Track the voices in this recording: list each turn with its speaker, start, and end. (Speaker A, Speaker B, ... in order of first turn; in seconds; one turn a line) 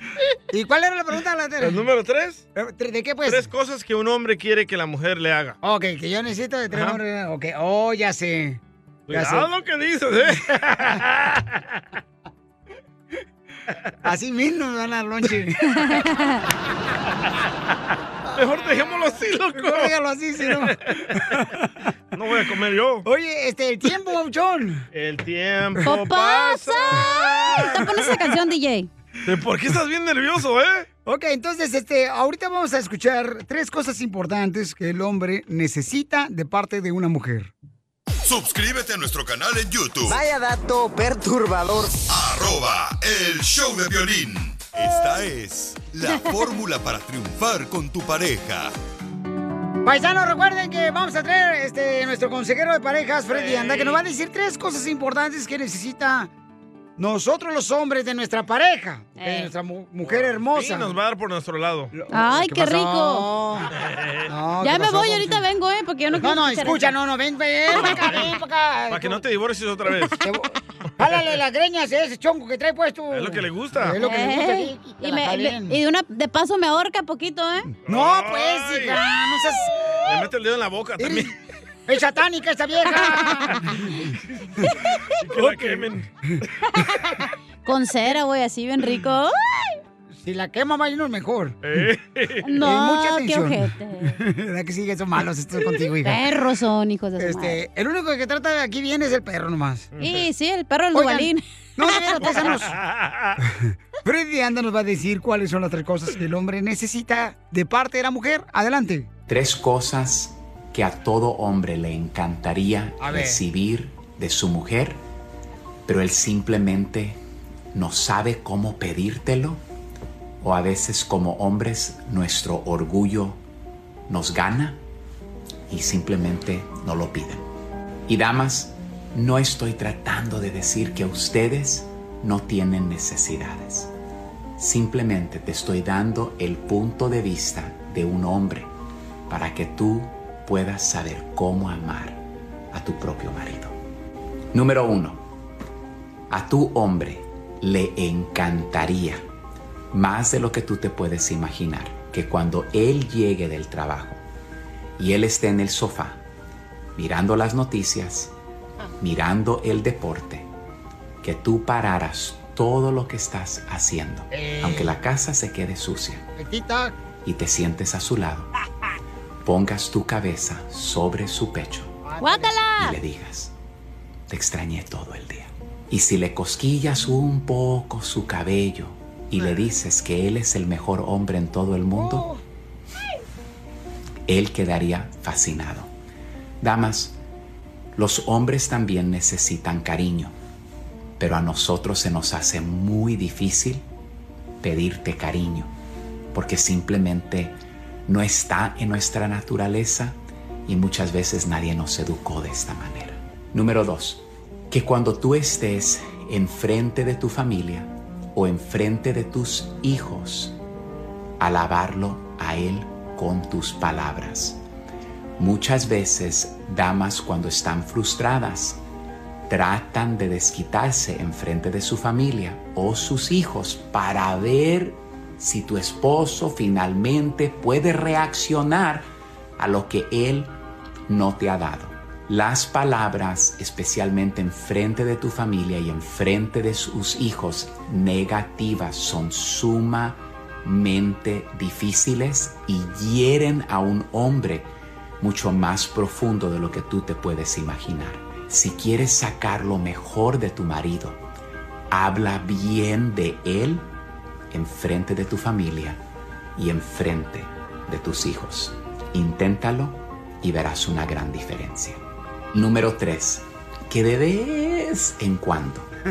Speaker A: 0.5-1.8
Speaker B: 1.6-2.5
Speaker A: 2.5-3.5
Speaker B: 3.3-5.6
Speaker A: 5.6-8.6
Speaker B: 6.7-7.0
Speaker B: 9.1-11.8
Speaker A: 9.1-9.5
Speaker A: 14.0-15.7
Speaker C: 15.8-16.4
Speaker B: 18.3-21.4
Speaker A: 19.6-21.6
Speaker B: 22.1-23.1
Speaker A: 23.0-24.8
Speaker B: 24.9-28.3
Speaker C: 25.8-28.9
Speaker B: 29.2-30.9
Speaker A: 31.1-37.5
Speaker D: 38.2-40.2
Speaker D: 42.1-48.7
Speaker A: 49.9-56.3
Speaker B: 53.3-54.0
Speaker A: 57.0-60.9
Speaker C: 59.2-59.5
Speaker B: 60.1-61.9
Speaker A: 61.9-63.7
Speaker C: 62.1-63.3
Speaker B: 63.8-64.3
Speaker A: 64.3-65.4
Speaker C: 64.6-66.9
Speaker A: 66.2-69.2
Speaker B: 67.7-68.3
Speaker B: 68.9-70.2
Speaker A: 70.2-75.8
Speaker B: 73.1-74.0
Speaker C: 74.0-77.7
Speaker A: 77.8-80.1
Speaker B: 77.9-79.0
Speaker B: 80.0-81.3
Speaker A: 81.0-81.3
Speaker A: 81.9-83.9
Speaker B: 85.2-86.1
Speaker A: 85.3-85.8
Speaker C: 87.7-89.7
Speaker A: 90.2-91.6
Speaker B: 91.6-92.5
Speaker C: 92.4-94.2
Speaker A: 92.6-96.2
Speaker C: 96.0-97.6
Speaker A: 97.2-99.9
Speaker B: 100.0-100.3
Speaker C: 100.0-102.2
Speaker A: 100.9-102.8
Speaker B: 102.2-103.4
Speaker A: 104.0-109.1
Speaker E: 109.3-115.0
Speaker A: 113.0-113.4
Speaker E: 115.9-117.2
Speaker E: 117.7-119.6
Speaker E: 120.4-123.4
Speaker E: 124.1-124.8
Speaker E: 125.7-127.4
Speaker E: 128.1-133.9
Speaker E: 134.6-138.7
Speaker E: 139.3-142.2
Speaker E: 142.7-143.7
Speaker E: 144.5-145.2
Speaker E: 146.3-149.2
Speaker E: 149.9-154.2
Speaker E: 155.0-156.2
Speaker E: 157.0-158.3
Speaker E: 159.0-160.5
Speaker E: 161.2-166.2
Speaker A: 164.3-165.0
Speaker A: 166.4-166.9
Speaker E: 167.3-168.5
Speaker E: 169.4-171.9
Speaker A: 172.1-172.6
Speaker C: 172.2-173.0
Speaker E: 172.8-173.5
Speaker E: 174.3-182.3
Speaker B: 179.4-179.7
Speaker A: 182.0-182.4
Speaker E: 184.3-185.9
Speaker E: 186.6-187.2
Speaker E: 188.0-190.3
Speaker E: 191.2-193.8
Speaker E: 194.6-195.7
Speaker E: 196.3-197.5
Speaker E: 198.1-200.1
Speaker E: 200.7-210.5
Speaker E: 211.4-214.6
Speaker E: 215.4-218.8
Speaker E: 219.5-229.0
Speaker E: 229.6-230.5
Speaker E: 231.1-244.7
Speaker E: 245.2-251.2
Speaker E: 251.9-253.8
Speaker E: 254.5-256.0
Speaker E: 256.6-262.0
Speaker E: 262.5-265.9